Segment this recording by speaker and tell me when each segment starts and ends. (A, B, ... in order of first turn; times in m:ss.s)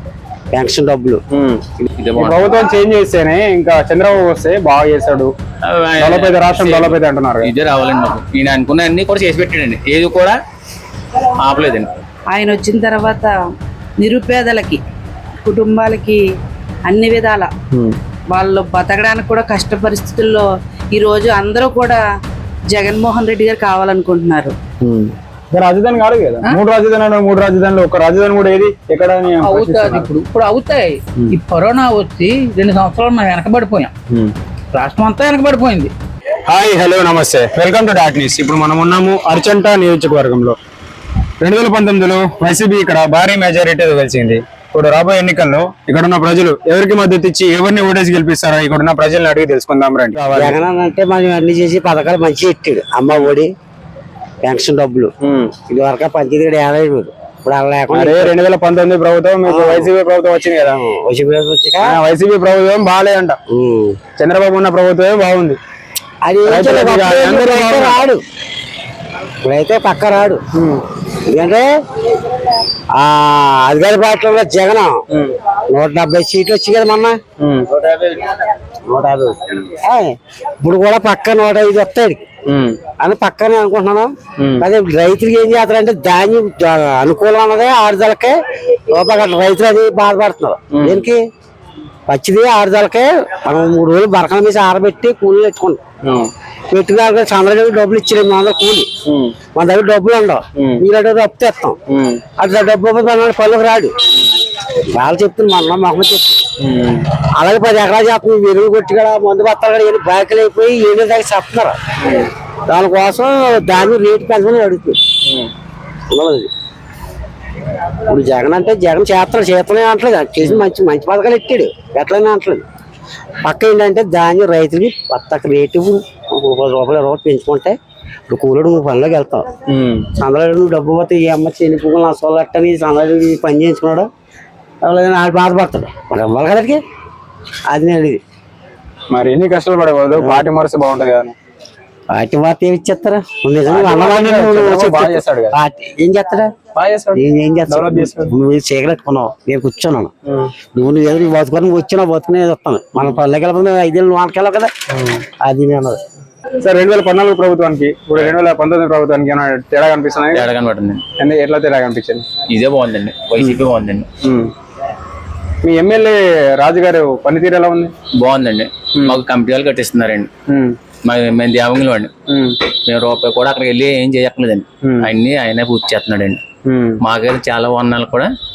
0:00.5-0:01.2 A
0:01.3-0:01.6 B
0:02.0-0:02.5 C
0:02.2-0:05.3 B
0:05.7-0:10.4 C
0:06.0-0:07.5 B
0:11.4-0:11.9 C
0:12.3-0:13.3 D
0:14.0-0:14.8 D
0:15.4-0:16.2 D
0:16.9-0:17.5 D
0:18.3-0:22.0 D
0:22.7-0:24.6 D
0:24.8-0:30.1 B
0:29.4-0:33.9 E
0:34.7-0:35.9 E
0:36.5-0:40.6 B
0:41.4-0:50.6 B
0:50.2-0:53.5 A
0:53.1-0:53.3 B
0:54.4-0:55.1 A
0:55.2-0:55.5 B
0:55.6-0:58.3 A
0:57.9-1:00.8 B
0:59.4-0:59.9 A
1:00.8-1:01.9 A
1:01.8-1:03.4 B
1:03.5-1:04.0 A
1:04.2-1:05.6 B
1:06.2-1:08.2 A
1:06.4-1:08.0 B
1:09.4-1:10.4 A
1:10.5-1:10.8 B
1:11.2-1:11.7 A
1:13.0-1:15.0 A
1:15.7-1:17.2 A
1:17.4-1:17.7 B
1:18.8-1:22.2 A
1:22.5-1:22.8 B
1:23.0-1:28.4 A
1:24.4-1:24.6 B
1:28.9-1:31.2 A
1:30.7-1:31.1 B
1:32.1-1:35.8 A
1:36.7-1:38.9 A
1:39.0-1:39.4 B
1:39.5-1:41.8 A
1:40.6-1:40.8 B
1:41.9-1:42.2 B
1:42.4-1:43.9 A
1:44.9-1:46.4 A
1:46.6-1:47.0 B
1:47.4-1:51.8 A
1:52.0-1:52.3 B
1:52.7-1:55.0 A
1:56.1-1:56.5 A
1:58.1-2:02.6 A
2:03.4-2:07.8 A
2:08.3-2:09.4 A
2:09.7-2:10.1 B
2:10.2-2:14.1 A
2:14.8-2:16.8 A
2:17.7-2:18.2 A
2:19.1-2:21.4 B
2:20.2-2:20.5 A
2:22.1-2:26.5 A
2:23.6-2:25.6 B
2:26.8-2:28.3 B
2:27.2-2:30.1 A
2:30.3-2:30.5 B
2:30.7-2:34.7 A
2:34.9-2:35.2 B
2:35.4-2:36.0 A
2:36.6-2:40.5 B
2:40.3-2:41.0 C
2:41.2-2:42.3 B
2:42.5-2:44.0 C
2:44.2-2:44.5 B
2:45.6-2:47.9 B
2:48.2-2:50.3 C
2:50.5-2:50.7 B
2:51.0-2:52.1 C
2:52.3-2:52.6 B
2:52.8-2:56.4 C
2:54.8-2:55.1 B
2:56.6-2:57.0 B
2:57.0-2:58.3 C